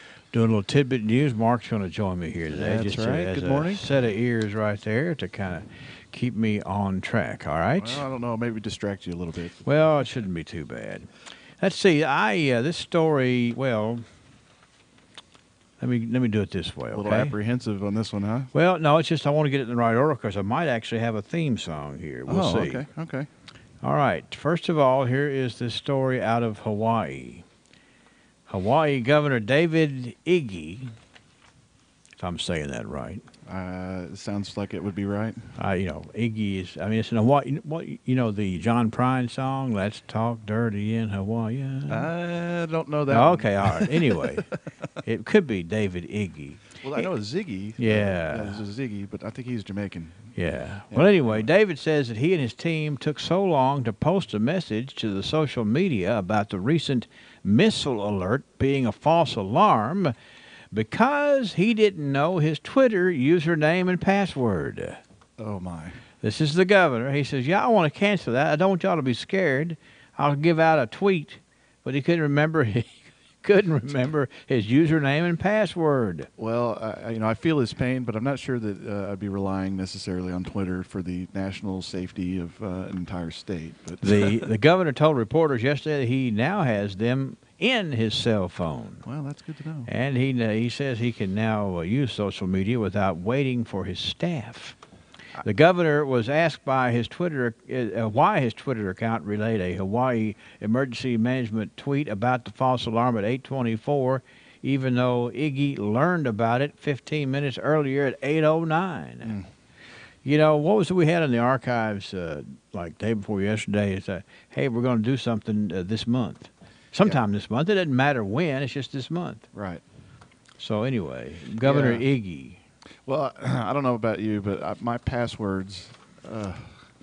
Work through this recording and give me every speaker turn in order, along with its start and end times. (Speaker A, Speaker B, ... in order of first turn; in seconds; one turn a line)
Speaker A: 0.3-8.0
Speaker B: 2.5-3.8
Speaker B: 7.8-9.7
Speaker A: 9.6-14.0
Speaker A: 15.8-17.4
Speaker B: 16.9-18.5
Speaker A: 18.5-22.9
Speaker B: 22.3-23.3
Speaker A: 23.8-27.4
Speaker A: 28.5-30.9
Speaker A: 32.2-33.2
Speaker B: 33.5-35.4
Speaker A: 35.6-42.1
Speaker B: 41.9-44.5
Speaker A: 43.1-47.1
Speaker B: 46.8-50.3
Speaker A: 47.8-48.6
Speaker A: 50.4-60.1
Speaker B: 50.9-51.5
Speaker A: 60.7-65.0
Speaker B: 65.4-66.0
Speaker A: 66.2-76.3
Speaker B: 76.4-84.5
Speaker A: 84.0-89.0
Speaker B: 89.0-89.9
Speaker A: 89.8-94.8
Speaker A: 95.4-109.3
Speaker B: 109.2-109.5
Speaker A: 110.2-119.5
Speaker B: 119.5-119.8
Speaker A: 120.6-122.6
Speaker B: 121.6-122.0
Speaker B: 123.0-126.8